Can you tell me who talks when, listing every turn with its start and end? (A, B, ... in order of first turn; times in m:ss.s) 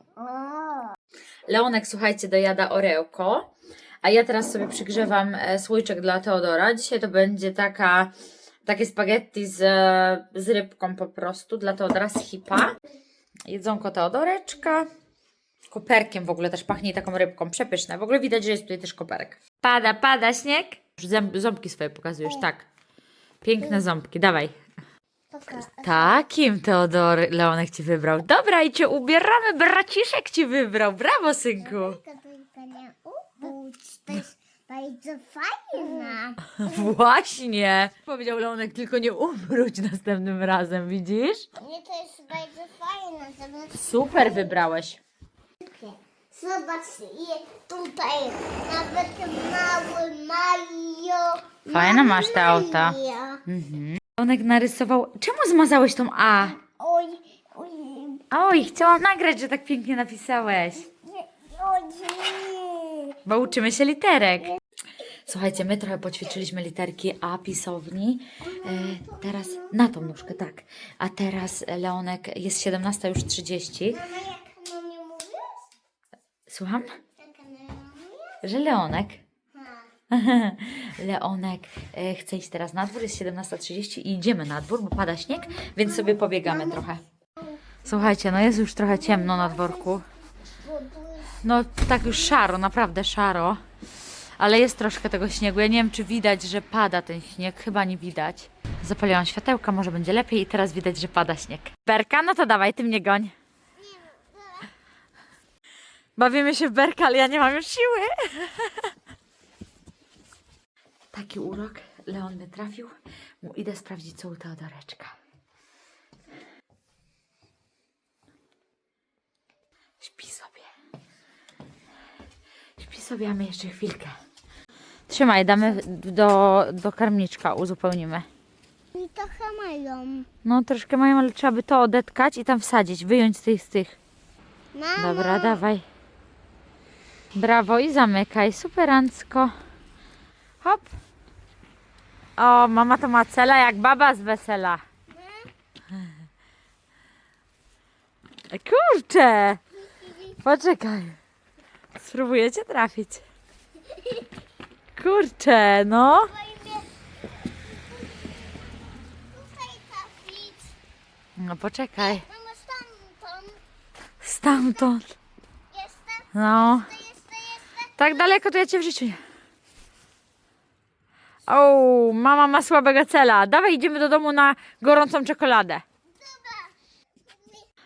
0:00.2-0:01.0 A
0:01.5-0:03.5 B
0:04.0-0:08.1 B
0:08.7-0:12.8 B
0:13.5-0:14.9 B
0:15.7-0:22.7 B
0:23.4-0:24.5 B
0:25.3-0:26.3 A
0:25.5-0:32.0 B
0:31.6-0:36.9 A
0:36.6-0:41.5 B
0:41.6-0:44.6 A
0:43.7-0:45.0 B
0:45.6-0:53.4 A
0:51.7-0:56.6 B
0:56.4-0:58.2 A
0:58.3-1:00.9 B
1:01.1-1:03.2 A
1:03.2-1:04.6 B
1:05.3-1:14.0 B
1:08.6-1:09.5 A
1:13.9-1:15.7 A
1:16.5-1:16.9 B
1:17.2-1:18.4 A
1:18.4-1:19.2 B
1:19.5-1:19.9 A
1:20.1-1:27.0 B
1:26.0-1:26.8 A
1:27.4-1:27.8 A
1:27.8-1:30.0 B
1:28.9-1:30.0 A
1:30.6-1:31.4 A
1:31.4-1:33.6 B
1:34.4-1:43.3 B
1:43.8-1:44.7 A
1:46.2-1:48.9 B
1:51.1-1:55.2 B
2:00.0-2:00.7 B
2:02.8-2:04.2 B
2:05.1-2:08.3 B
2:08.9-2:10.3 A
2:10.4-2:14.0 B
2:14.7-2:15.6 A
2:15.0-2:15.8 B
2:17.3-2:19.5 B
2:20.6-2:20.9 B
2:22.4-2:24.8 B
2:25.1-2:25.5 A
2:28.5-2:29.6 B
2:29.9-2:30.3 A
2:30.4-2:31.2 B
2:32.0-2:33.2 B
2:33.9-2:34.2 A
2:35.0-2:36.3 B
2:36.0-2:36.9 A
2:37.5-2:40.7 A
2:41.4-2:42.2 B
2:42.0-2:43.6 A
2:44.2-2:45.2 B
2:45.7-2:46.3 A
2:46.3-2:46.9 B
2:46.8-2:48.2 A
2:48.0-2:49.2 B
2:51.5-2:55.8 B
2:56.2-2:56.7 A